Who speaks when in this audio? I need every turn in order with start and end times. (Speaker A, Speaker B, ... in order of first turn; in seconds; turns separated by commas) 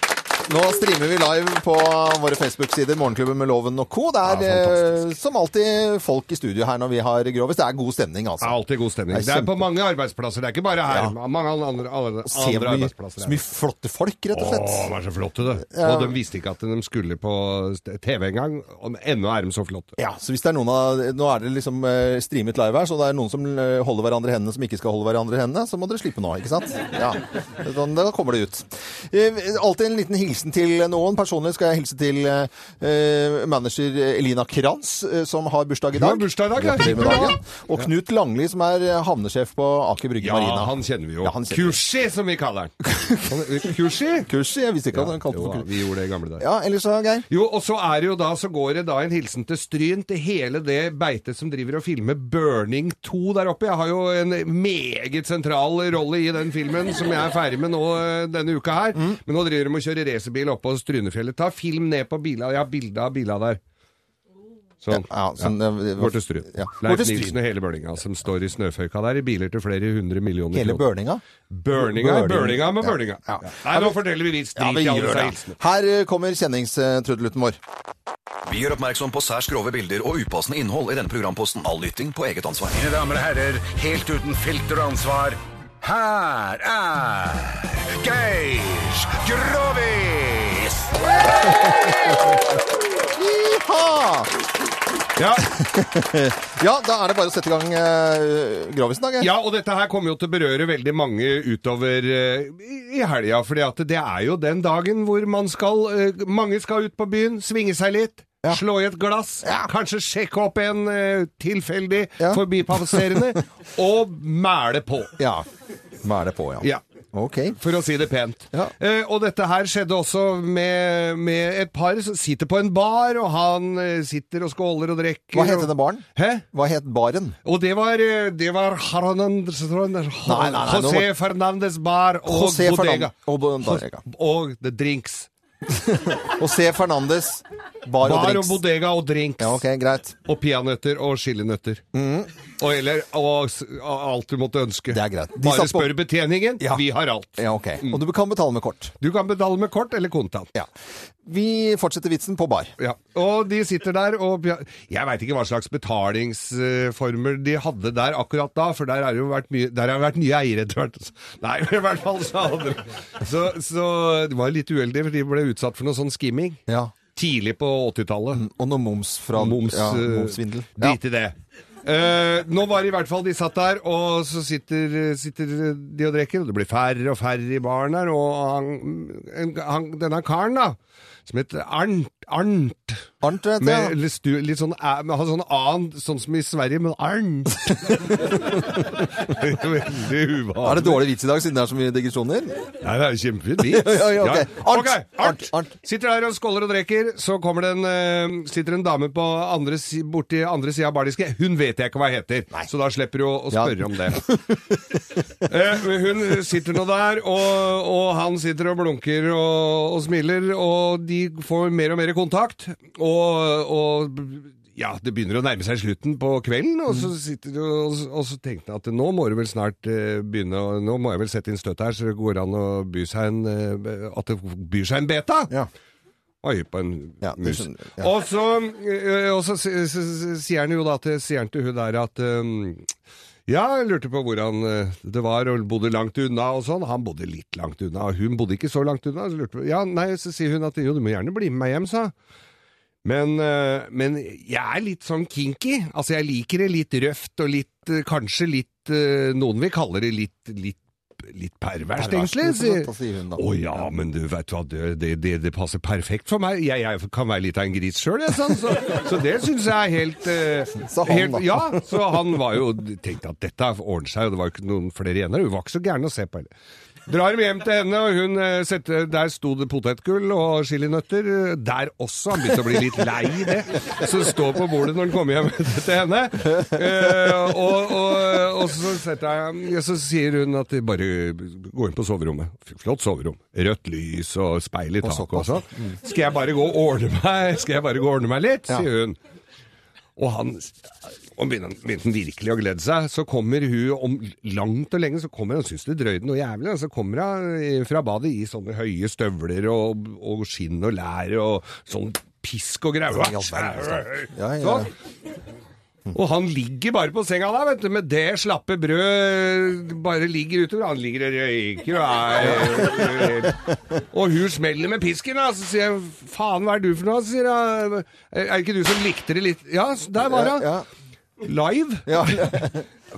Speaker A: 0.5-8.6, Speaker B: 4.2-5.0, Speaker B: 8.4-13.4, Speaker A: 9.1-9.6, Speaker A: 10.9-11.1, Speaker A: 12.2-14.9, Speaker B: 14.3-19.9, Speaker A: 15.7-16.1, Speaker A: 20.0-41.8, Speaker B: 35.9-37.9, Speaker B: 40.2-44.3, Speaker A: 42.8-43.4, Speaker A: 44.3-45.7, Speaker B: 44.9-46.4, Speaker A: 46.4-47.2, Speaker B: 47.3-63.6, Speaker B: 64.8-70.8, Speaker A: 64.9-67.4, Speaker A: 70.5-73.9, Speaker B: 71.5-75.5, Speaker A: 74.5-77.6, Speaker C: 78.5-82.8, Speaker D: 82.7-90.8, Speaker A: 93.1-94.3, Speaker B: 95.2-95.5, Speaker A: 95.5-99.3, Speaker B: 99.2-115.1, Speaker A: 109.4-109.7, Speaker A: 112.2-113.2, Speaker A: 115.2-115.5, Speaker A: 116.0-117.6, Speaker B: 117.5-126.4, Speaker A: 125.3-127.3, Speaker B: 127.4-135.3, Speaker A: 130.2-131.1, Speaker A: 132.3-134.0, Speaker A: 135.7-138.6, Speaker B: 138.0-139.6, Speaker A: 139.4-140.2, Speaker B: 140.2-141.8, Speaker A: 141.9-142.3, Speaker B: 142.6-148.0, Speaker A: 144.9-146.0, Speaker A: 147.4-148.9, Speaker B: 149.0-150.5, Speaker A: 151.2-152.7, Speaker B: 152.8-166.6, Speaker A: 166.7-166.9, Speaker B: 167.1-168.4, Speaker A: 168.3-171.0, Speaker B: 169.3-183.1, Speaker A: 183.2-183.9, Speaker B: 183.6-191.1, Speaker A: 190.6-192.7, Speaker B: 192.8-204.2, Speaker A: 193.6-195.7, Speaker A: 203.5-204.8, Speaker B: 205.4-225.5, Speaker B: 226.4-232.9, Speaker A: 227.2-228.1, Speaker B: 233.5-242.1, Speaker B: 243.0-266.5, Speaker A: 251.9-253.9, Speaker A: 260.9-261.8, Speaker B: 267.1-289.2, Speaker A: 285.0-285.6, Speaker B: 290.1-304.9, Speaker A: 303.1-304.9, Speaker B: 306.1-320.7, Speaker A: 312.4-313.5, Speaker A: 320.2-320.8, Speaker B: 321.4-322.7, Speaker A: 322.1-322.8